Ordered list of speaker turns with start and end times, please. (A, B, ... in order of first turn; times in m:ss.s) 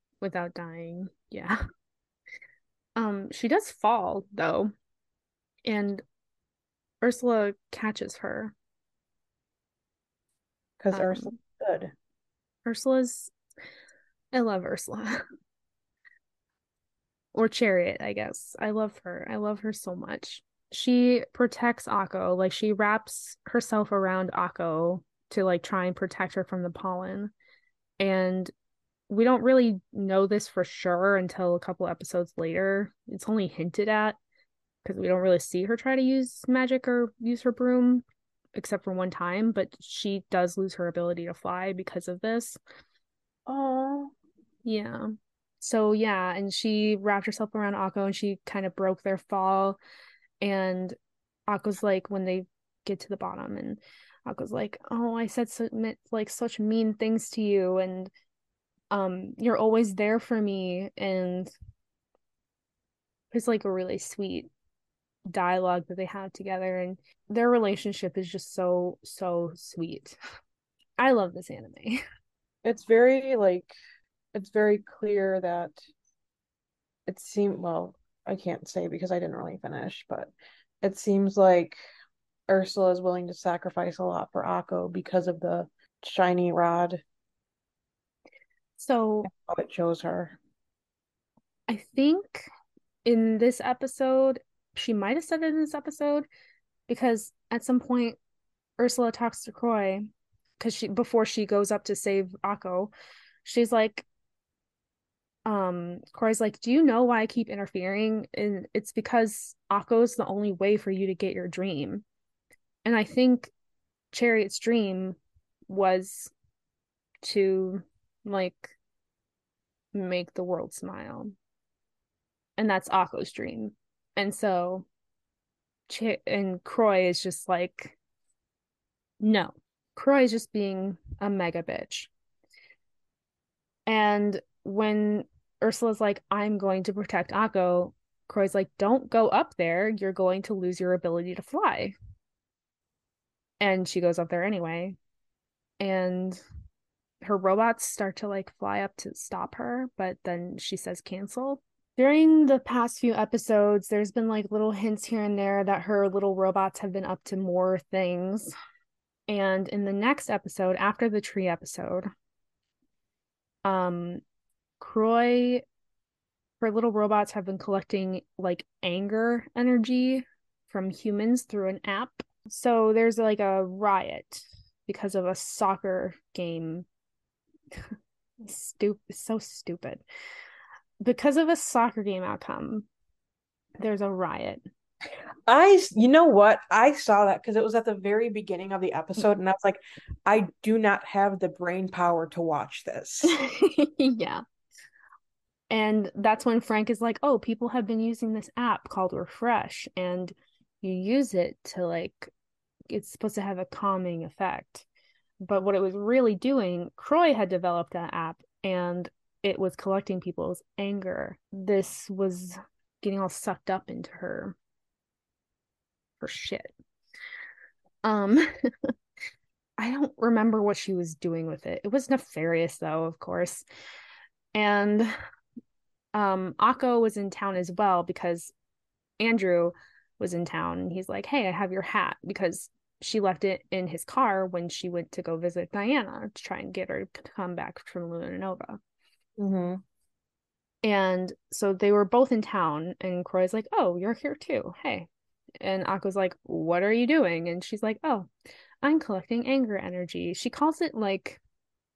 0:00.2-0:01.6 A
0:03.0-0:04.7 A
0:05.6-0:06.0 A
0:07.0-0:08.6 A
0:10.8-0:11.9 B
0:10.9-0:11.3 A
0:12.7-0:13.3 A
0:14.3-0:15.2 A
0:17.3-0:27.3 A
0:28.0-0:28.5 A
0:29.1-0:34.2 A
0:34.8-0:38.0 A
0:38.6-0:42.6 A
0:43.5-0:44.1 B
0:44.6-0:49.8 A
0:50.4-0:51.0 A
0:51.5-0:58.1 A
0:58.9-1:01.5 A
1:03.3-1:04.5 A
1:05.3-1:10.2 A
1:11.0-1:12.0 A
1:12.6-1:13.7 B
1:14.3-1:15.8 B
1:17.1-1:20.3 B
1:20.8-1:21.8 B
1:22.5-1:27.0 B
1:28.8-1:29.3 A
1:29.3-1:30.4 B
1:31.7-1:32.5 A
1:33.0-1:36.2 A
1:36.9-1:38.2 A
1:38.8-1:42.9 A
1:43.4-1:44.0 A
1:45.4-1:52.0 A
1:52.8-1:53.5 A
1:54.1-1:55.2 A
1:55.7-1:56.3 A
1:57.2-1:58.7 A
1:59.9-2:01.3 A
2:02.6-2:04.9 A
2:05.9-2:08.0 A
2:09.2-2:12.1 A
2:13.9-2:22.0 A
2:23.6-2:25.0 A
2:25.8-2:26.4 A
2:27.2-2:38.5 A
2:39.3-2:42.1 A
2:43.6-2:44.2 A
2:44.8-2:45.6 A
2:46.6-2:56.9 A
2:57.7-3:00.0 A
3:01.0-3:02.9 A
3:03.8-3:04.6 A
3:05.5-3:13.4 B
3:13.3-3:14.4 A
3:15.7-3:22.3 A
3:22.9-3:24.9 A
3:25.4-3:34.6 A
3:36.2-3:36.7 A
3:38.0-3:38.9 A
3:39.8-3:43.7 A
3:44.5-3:45.1 A
3:46.1-3:48.5 A
3:49.2-3:58.8 A
3:59.4-3:59.8 B
4:00.8-4:05.1 A
4:05.6-4:08.3 A
4:08.8-4:11.4 A